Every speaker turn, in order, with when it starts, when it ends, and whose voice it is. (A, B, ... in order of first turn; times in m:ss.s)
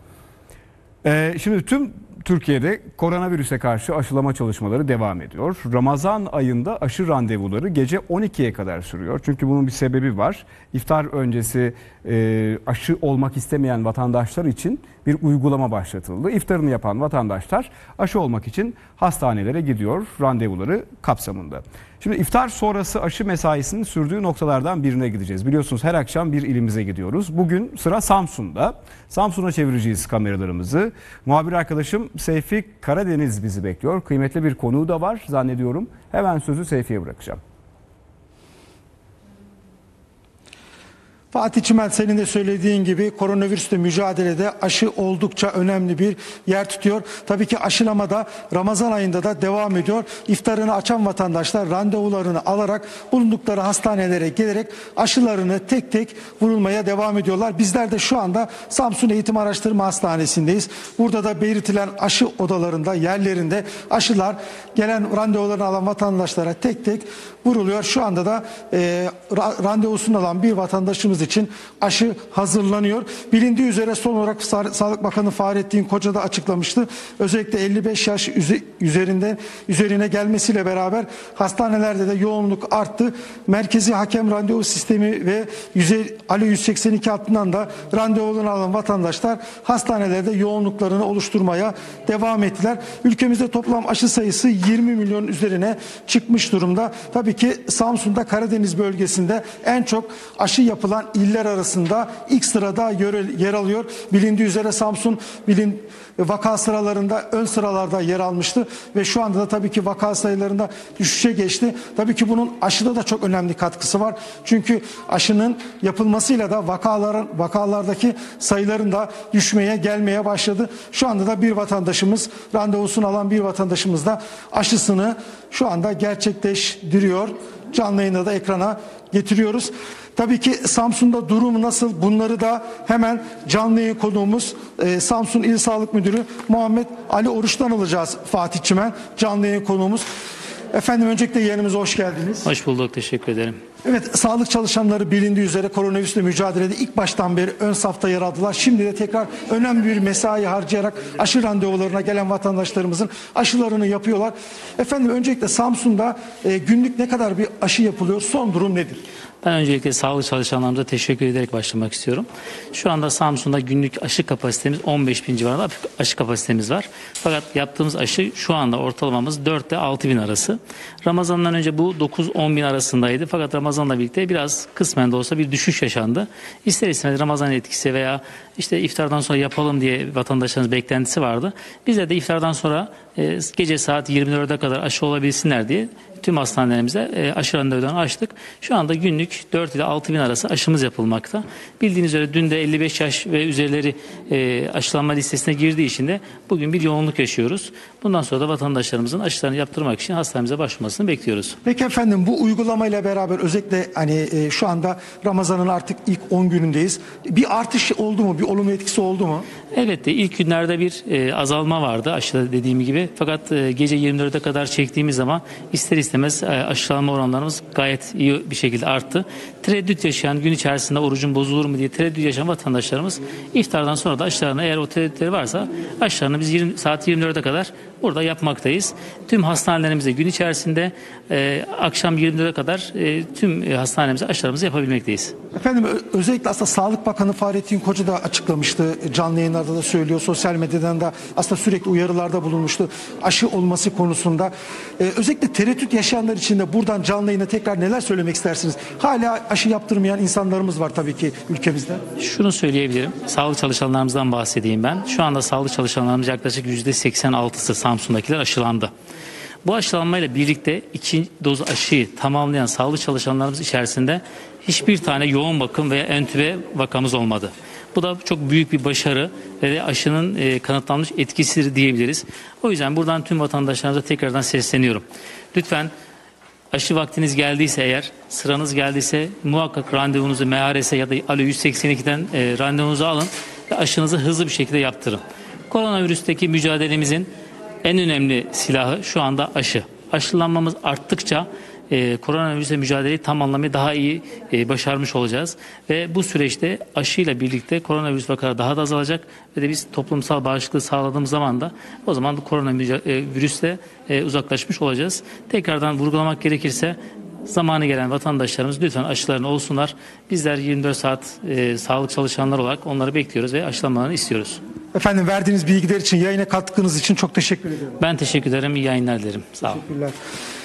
0:01.0-0:37.4 A
0:41.3-2:20.1 B
2:20.7-2:22.5 B
2:22.4-2:23.6 C
2:23.8-2:39.0 B
2:39.4-3:21.6 C
3:21.6-3:29.5 B
3:29.7-3:55.3 C
3:55.6-4:12.0 B
4:12.2-4:18.9 C
4:19.6-4:35.9 C
4:36.7-4:47.3 C
4:47.8-5:14.6 C
5:14.9-5:18.0 B
5:18.0-5:19.8 C
5:19.6-5:20.2 B